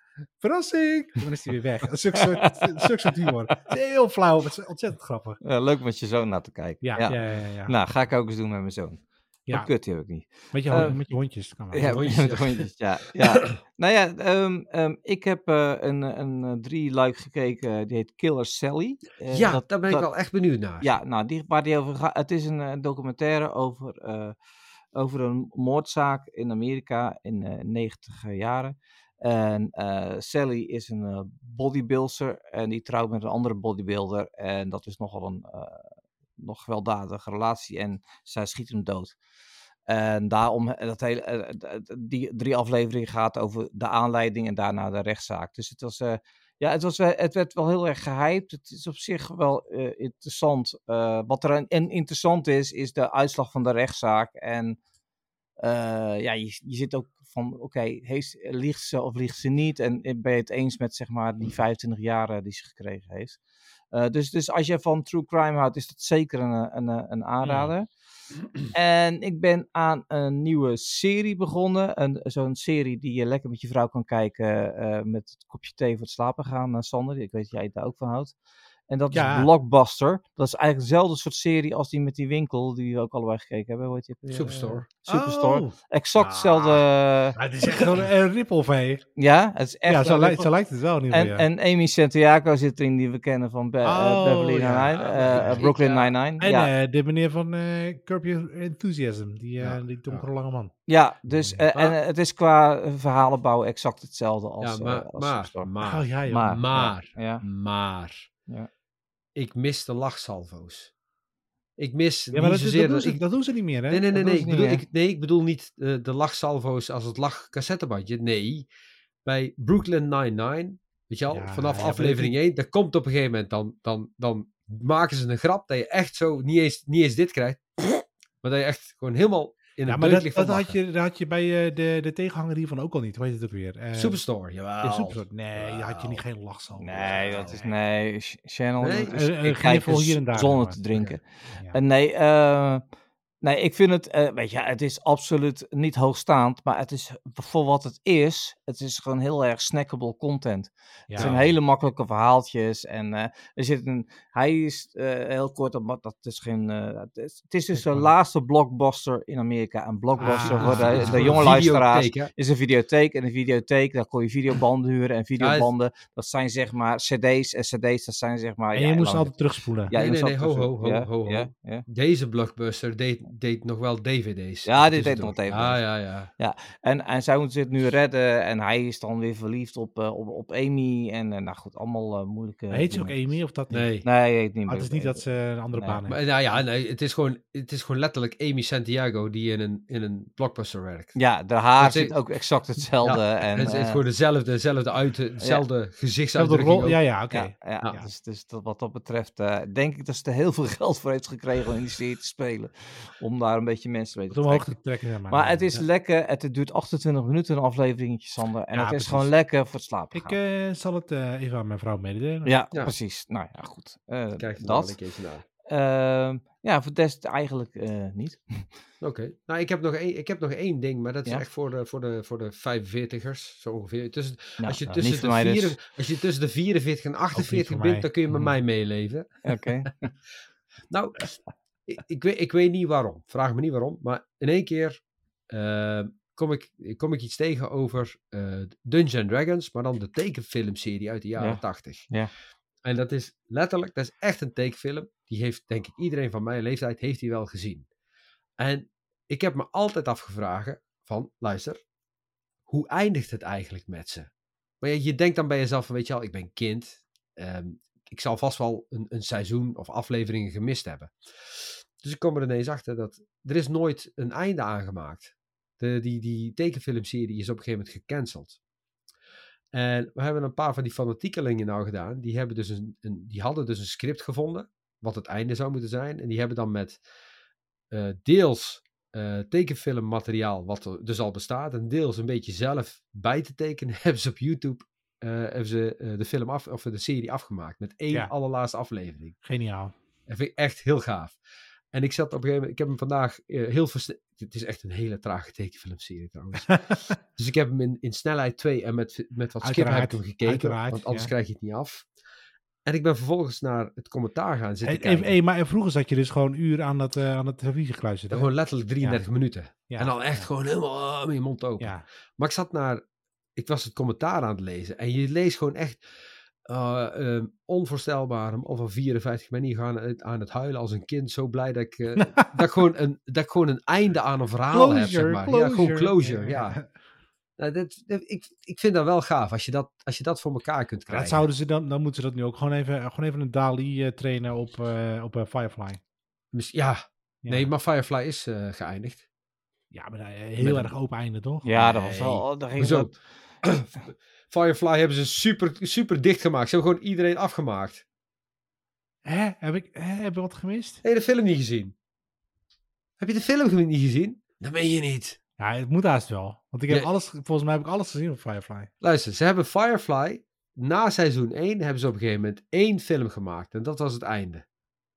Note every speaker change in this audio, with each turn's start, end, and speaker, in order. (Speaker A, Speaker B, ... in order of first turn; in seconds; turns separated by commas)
Speaker A: 0.4-5.4, Speaker B: 5.4-24.4, Speaker A: 6.8-7.8, Speaker A: 9.5-12.2, Speaker C: 11.8-12.7, Speaker C: 19.3-20.9, Speaker B: 24.9-39.2, Speaker B: 39.9-54.8, Speaker B: 55.6-63.4, Speaker B: 63.9-67.9, Speaker B: 68.6-78.3, Speaker B: 78.9-87.8, Speaker A: 79.1-79.5, Speaker C: 84.3-84.8, Speaker A: 84.5-86.8, Speaker A: 87.4-89.1, Speaker B: 89.2-90.5, Speaker A: 89.9-91.5, Speaker B: 91.1-96.7, Speaker A: 93.8-95.7, Speaker C: 95.0-96.1, Speaker A: 96.4-100.7, Speaker C: 99.6-100.3, Speaker B: 100.9-105.7, Speaker A: 101.3-101.6, Speaker C: 104.6-108.3, Speaker A: 105.8-106.6, Speaker B: 106.3-107.4, Speaker C: 109.3-110.9, Speaker C: 111.8-113.2, Speaker A: 112.3-114.1, Speaker C: 113.9-118.7, Speaker B: 114.1-114.8, Speaker C: 119.2-130.8, Speaker A: 121.3-122.3, Speaker A: 129.9-134.2, Speaker C: 133.9-136.2, Speaker A: 134.8-137.7, Speaker B: 136.8-142.8, Speaker C: 137.0-137.6, Speaker C: 138.8-139.2, Speaker A: 139.1-141.8, Speaker B: 143.4-169.3, Speaker A: 151.1-151.4, Speaker C: 151.2-151.5, Speaker A: 157.8-158.1, Speaker A: 160.2-161.6, Speaker C: 160.5-162.3, Speaker C: 165.4-165.7, Speaker A: 168.7-169.9, Speaker B: 169.9-171.8, Speaker C: 169.9-176.3, Speaker B: 174.7-183.4, Speaker A: 182.7-184.0, Speaker C: 183.7-184.1, Speaker B: 184.0-186.1, Speaker A: 184.7-186.2, Speaker C: 186.1-191.2, Speaker B: 191.2-194.0, Speaker C: 191.8-192.2, Speaker C: 193.0-197.0, Speaker A: 196.3-198.1, Speaker B: 197.3-204.8, Speaker A: 204.3-205.8, Speaker B: 205.3-210.4, Speaker A: 208.7-209.3, Speaker A: 210.1-212.5, Speaker B: 212.4-215.0, Speaker C: 214.4-215.4, Speaker B: 215.7-218.7, Speaker C: 219.0-229.7, Speaker B: 224.6-225.8, Speaker A: 227.3-228.1, Speaker B: 229.4-230.1, Speaker C: 230.9-242.1, Speaker B: 241.4-242.3, Speaker C: 242.8-247.9, Speaker C: 248.6-251.8, Speaker C: 252.7-254.3, Speaker C: 254.8-268.6, Speaker C: 269.7-277.0, Speaker C: 277.9-289.4, Speaker A: 289.4-289.9, Speaker C: 290.3-291.4, Speaker C: 291.9-302.1, Speaker A: 299.6-301.3, Speaker C: 302.9-305.3, Speaker A: 304.9-309.2, Speaker C: 308.3-313.0, Speaker A: 309.8-310.5, Speaker A: 311.8-312.1, Speaker C: 313.6-326.8, Speaker A: 324.7-326.9, Speaker C: 327.6-331.4, Speaker A: 331.1-336.0, Speaker C: 336.5-339.3, Speaker A: 339.9-341.7, Speaker C: 340.6-340.9, Speaker B: 341.6-343.1, Speaker C: 341.8-348.0, Speaker A: 349.2-351.0, Speaker C: 351.0-351.9, Speaker C: 353.2-355.4, Speaker A: 355.6-358.9, Speaker C: 359.0-364.6